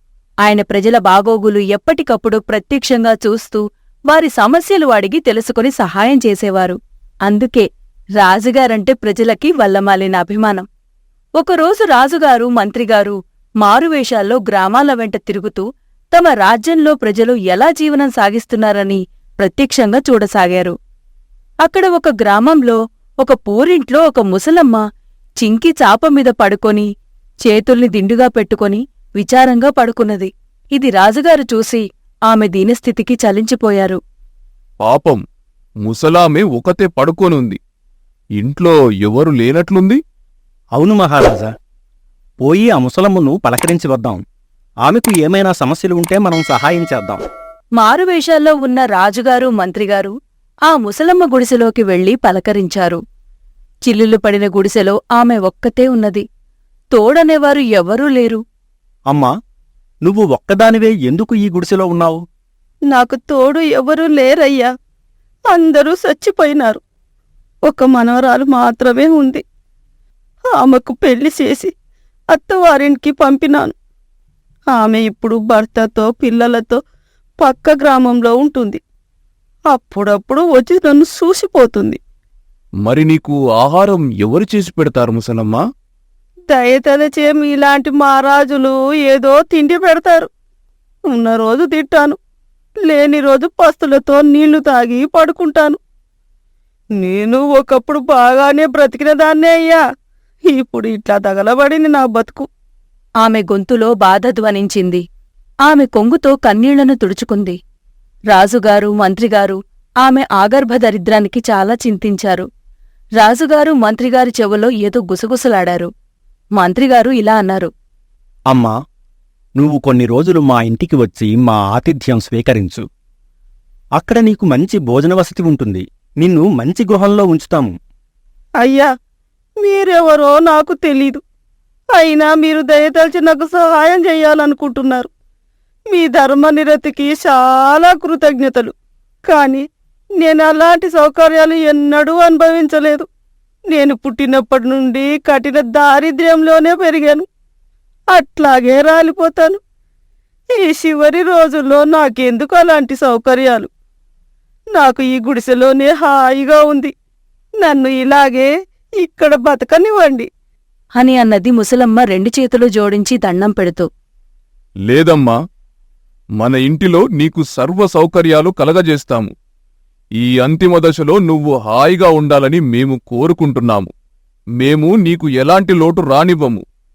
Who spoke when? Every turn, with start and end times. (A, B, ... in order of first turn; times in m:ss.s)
0:00.4-0:07.7 A
0:08.2-0:10.6 A
0:11.4-0:20.7 A
0:21.6-0:24.8 A
0:25.4-0:26.8 A
0:27.4-0:34.0 A
0:34.8-0:35.2 B
0:35.8-0:37.6 B
0:38.4-0:40.0 B
0:40.8-0:41.5 C
0:42.4-0:44.2 C
0:44.8-0:47.2 C
0:47.8-0:50.1 A
0:50.7-0:53.0 A
0:53.9-0:56.2 A
0:56.9-0:58.4 A
1:00.0-1:02.2 C
1:02.9-1:04.7 D
1:05.5-1:06.8 D
1:07.7-1:09.4 D
1:10.6-1:11.7 D
1:12.3-1:13.7 D
1:14.7-1:16.8 D
1:17.4-1:18.8 D
1:19.7-1:22.0 D
1:22.8-1:25.6 B
1:26.5-1:30.3 D
1:31.1-1:32.2 D
1:32.9-1:35.8 D
1:37.0-1:39.8 D
1:40.5-1:42.5 D
1:43.2-1:45.0 A
1:45.7-1:47.6 A
1:48.3-1:52.5 A
1:53.2-1:55.9 A
1:56.6-1:57.7 A
1:59.6-2:02.8 C
2:04.0-2:07.7 C
2:08.6-2:08.9 D
2:09.6-2:11.2 D
2:12.0-2:15.1 D
2:15.9-2:18.7 D
2:19.3-2:19.6 D
2:20.2-2:23.0 D
2:23.7-2:27.2 D
2:28.1-2:29.6 D
2:30.6-2:33.7 D
2:34.8-2:36.9 D
2:37.6-2:38.5 D
2:39.0-2:40.3 D
2:41.0-2:43.9 A
2:44.9-2:45.3 B
2:46.4-2:49.3 B
2:50.2-2:53.9 B
2:54.6-2:56.6 B